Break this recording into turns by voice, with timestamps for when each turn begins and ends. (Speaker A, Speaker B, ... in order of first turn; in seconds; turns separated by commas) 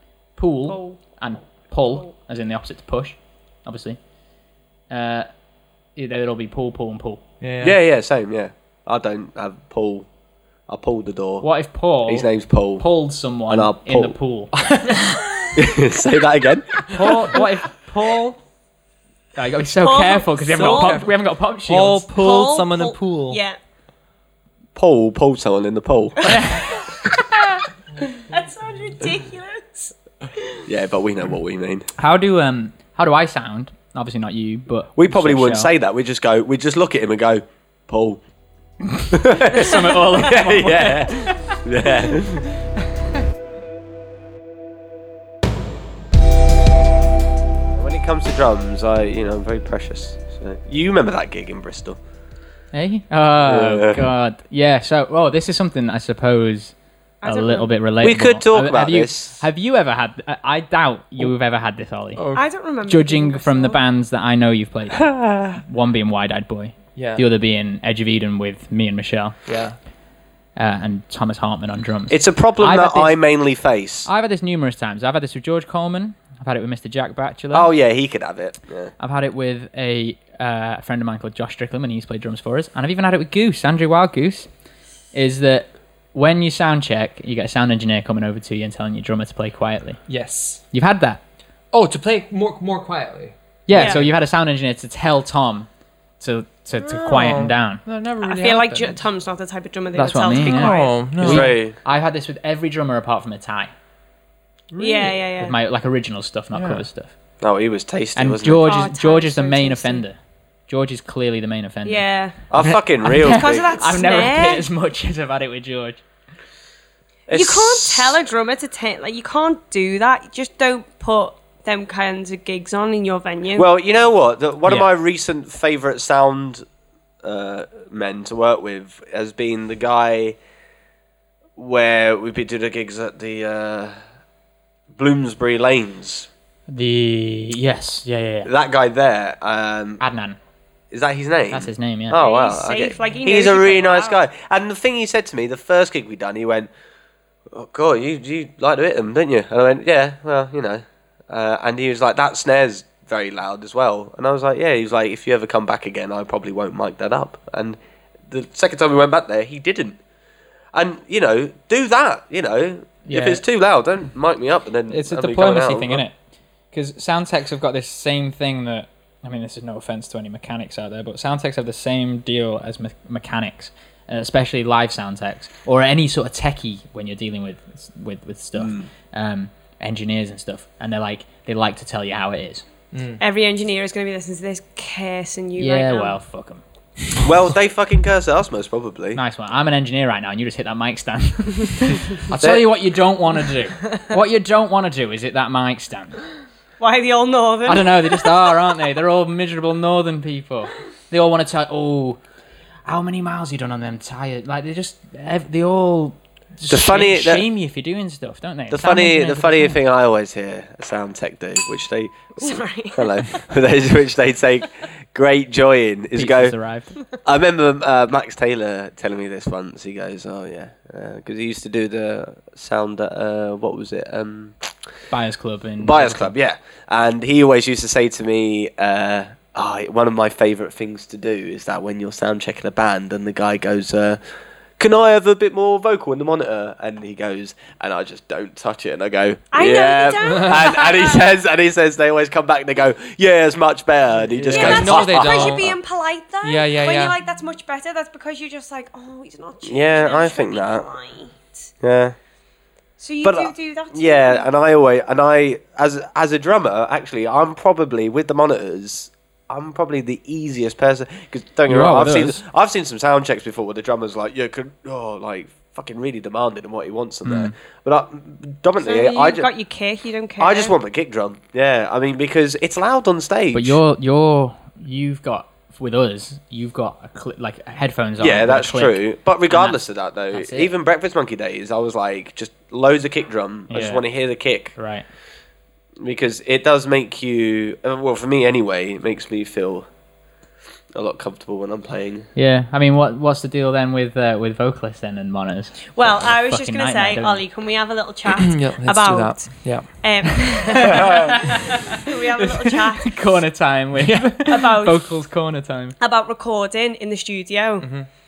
Speaker A: 0.4-4.0, Speaker B: 0.7-1.0, Speaker A: 4.9-5.3, Speaker A: 6.0-7.2, Speaker C: 7.4-7.8, Speaker D: 7.6-10.1, Speaker D: 10.7-11.4, Speaker A: 11.4-15.5, Speaker D: 12.1-12.8, Speaker D: 13.5-14.2, Speaker D: 15.5-17.1, Speaker A: 16.8-18.4, Speaker A: 19.3-22.1, Speaker B: 19.8-21.0, Speaker C: 20.5-21.1, Speaker C: 21.6-23.4, Speaker B: 22.1-23.6, Speaker D: 24.7-26.4, Speaker A: 26.2-26.8, Speaker B: 28.1-29.9, Speaker D: 30.6-31.9, Speaker A: 32.0-35.7, Speaker D: 35.0-38.2, Speaker A: 39.0-41.6, Speaker D: 39.1-42.5, Speaker D: 47.7-52.0, Speaker A: 52.7-62.2, Speaker D: 53.4-54.0, Speaker B: 57.2-57.7, Speaker D: 58.0-59.4, Speaker C: 62.1-62.5, Speaker B: 62.3-63.8, Speaker A: 62.8-69.3, Speaker D: 65.1-65.5, Speaker C: 67.0-67.2, Speaker C: 69.5-69.8, Speaker A: 70.5-73.2, Speaker D: 72.1-74.1, Speaker A: 74.0-77.7, Speaker D: 77.5-78.9, Speaker A: 79.0-84.5, Speaker A: 85.1-90.0, Speaker C: 90.1-90.6, Speaker A: 90.7-91.2, Speaker C: 91.7-94.1, Speaker A: 93.7-95.7, Speaker B: 93.7-94.0, Speaker A: 96.2-97.8, Speaker C: 96.8-99.0, Speaker B: 98.2-100.9, Speaker A: 99.9-103.7, Speaker C: 100.3-101.5, Speaker D: 101.2-101.8, Speaker C: 104.7-105.2, Speaker B: 104.8-105.5, Speaker A: 105.4-107.1, Speaker C: 106.5-106.8, Speaker D: 107.4-108.8, Speaker A: 108.1-110.2, Speaker B: 108.6-110.0, Speaker A: 110.7-116.0, Speaker B: 111.8-112.4, Speaker D: 112.5-113.8, Speaker B: 113.2-114.7, Speaker D: 117.3-118.2, Speaker B: 117.3-123.7, Speaker D: 123.5-126.6, Speaker D: 127.2-130.4, Speaker D: 131.6-133.9, Speaker D: 134.9-136.3, Speaker A: 136.7-138.5, Speaker D: 138.4-140.0, Speaker A: 140.0-140.4, Speaker D: 140.9-146.7, Speaker A: 141.5-142.2, Speaker B: 142.1-144.2, Speaker D: 147.5-160.0, Speaker D: 160.7-166.0, Speaker A: 163.1-163.4, Speaker A: 164.9-166.1, Speaker A: 166.7-182.7, Speaker D: 178.6-178.8, Speaker C: 182.9-183.2, Speaker B: 183.2-186.1, Speaker A: 185.6-186.6, Speaker D: 187.2-189.2, Speaker A: 189.1-196.2, Speaker D: 192.4-192.7, Speaker B: 196.8-198.5, Speaker A: 197.7-202.2, Speaker A: 202.8-209.8, Speaker D: 206.7-207.5, Speaker D: 208.7-216.5, Speaker B: 212.4-213.3, Speaker A: 216.1-216.9, Speaker D: 217.2-224.7, Speaker A: 225.1-226.3, Speaker D: 225.8-234.2, Speaker D: 234.8-245.7, Speaker B: 239.5-241.3, Speaker C: 244.5-245.7, Speaker B: 244.5-251.7, Speaker C: 246.4-247.2, Speaker D: 249.6-250.9, Speaker D: 251.8-252.2, Speaker B: 253.0-254.4, Speaker D: 253.2-269.5, Speaker A: 261.7-262.4, Speaker A: 267.2-267.5, Speaker B: 268.8-270.7, Speaker D: 270.4-273.8, Speaker A: 273.5-279.8, Speaker D: 278.2-284.7, Speaker A: 280.3-280.7, Speaker A: 283.7-284.0, Speaker A: 284.8-285.1, Speaker D: 286.0-289.9, Speaker D: 290.9-292.3, Speaker A: 292.4-297.4, Speaker B: 295.9-303.1, Speaker C: 298.3-300.0, Speaker A: 300.3-305.9, Speaker C: 304.0-304.3, Speaker B: 304.4-305.1, Speaker B: 306.0-307.9, Speaker C: 307.8-308.1